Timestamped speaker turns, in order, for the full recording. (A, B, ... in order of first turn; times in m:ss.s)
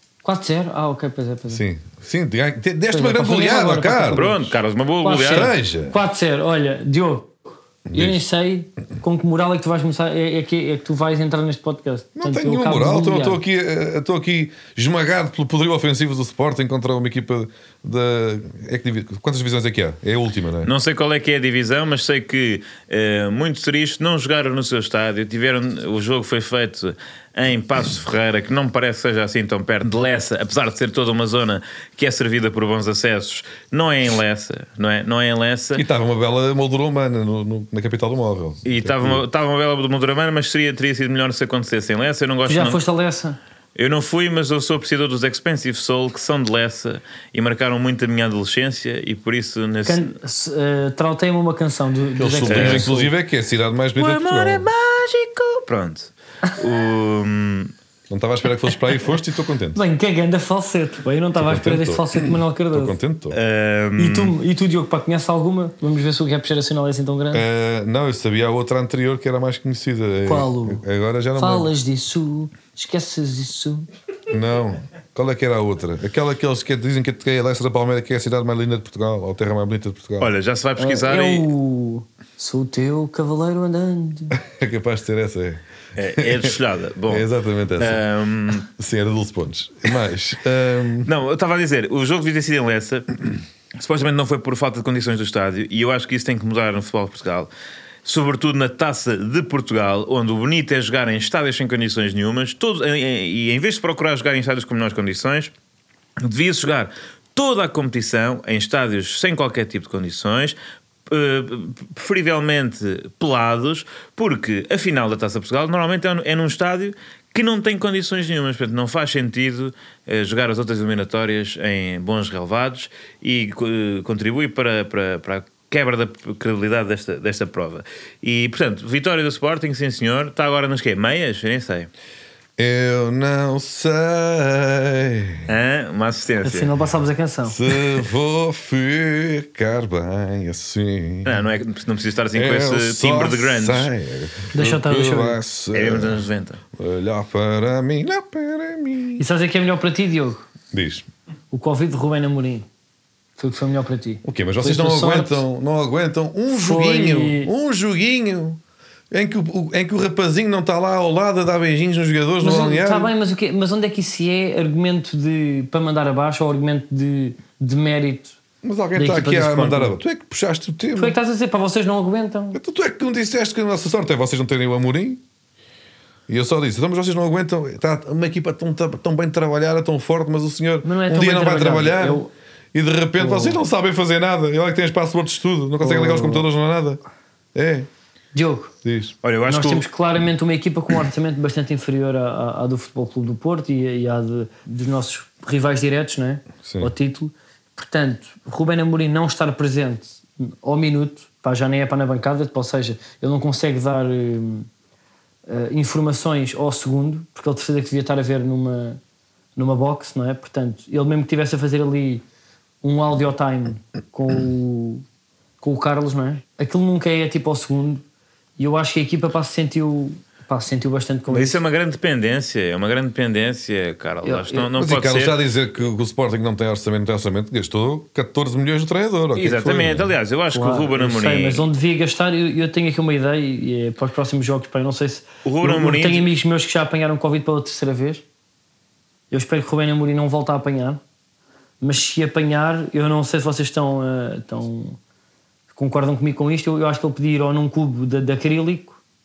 0:00.2-0:01.6 A
0:01.5-0:04.4 B
0:02.9-0:13.4 A
0:04.1-0:05.5 C
0:05.3-0:06.0 B
0:07.9-0:08.2 B
0:12.2-0:20.7 B
0:20.6-0:35.8 C
0:35.7-0:39.2 B
0:38.6-0:42.8 C
0:42.5-0:43.4 A
0:43.8-0:50.1 C
0:49.9-0:53.0 A
0:52.2-0:54.7 B
0:52.5-0:53.1 C
0:54.0-0:57.7 C
0:58.1-0:59.8 B
0:59.8-1:03.0 A
1:01.4-1:03.4 B
1:03.3-1:04.3 C
1:04.0-1:07.4 A
1:07.3-1:11.7 B
1:10.2-1:10.8 A
1:11.4-1:13.9 A
1:14.3-1:20.3 B
1:20.2-1:21.5 C
1:20.8-1:24.4 A
1:24.4-1:25.6 B
1:26.0-1:27.3 C
1:26.2-1:26.5 B
1:27.1-1:28.0 B
1:27.8-1:28.7 C
1:28.6-1:31.1 B
1:31.0-1:33.2 C
1:33.8-1:37.5 C
1:38.0-1:45.5 C
1:46.2-2:11.9 C
2:12.6-2:15.5 B
2:15.5-2:16.7 C
2:16.4-2:17.6 A
2:17.5-2:21.4 B
2:21.2-2:23.9 C
2:22.3-2:26.2 B
2:24.5-2:25.4 A
2:25.7-2:26.6 C
2:26.8-2:29.2 B
2:29.2-2:30.4 A
2:30.7-2:31.1 B
2:31.5-2:32.7 A
2:33.4-2:35.4 A
2:34.2-2:38.6 B
2:36.5-2:37.5 A
2:39.1-2:43.1 B
2:42.4-2:48.4 A
2:48.6-2:51.2 B
2:49.0-2:50.0 A
2:50.9-2:52.6 A
2:52.5-2:55.2 B
2:56.3-3:07.0 B
3:00.8-3:02.3 A
3:03.2-3:03.6 A
3:05.8-3:06.5 A
3:07.6-3:07.9 B
3:08.3-3:08.7 A
3:08.8-3:09.2 B
3:09.2-3:09.9 C
3:09.5-3:24.7 A
3:16.6-3:16.9 B
3:25.5-3:29.0 A
3:29.6-3:32.2 A
3:32.8-3:35.0 A
3:35.6-3:38.0 A
3:38.6-3:41.6 A
3:41.3-3:45.4 C
3:44.2-3:44.7 A
3:44.8-3:50.1 B
3:49.4-3:51.7 C
3:50.5-3:58.2 A
3:55.4-3:56.3 C
3:59.3-4:01.0 A
4:01.8-4:05.0 A
4:05.7-4:09.0 A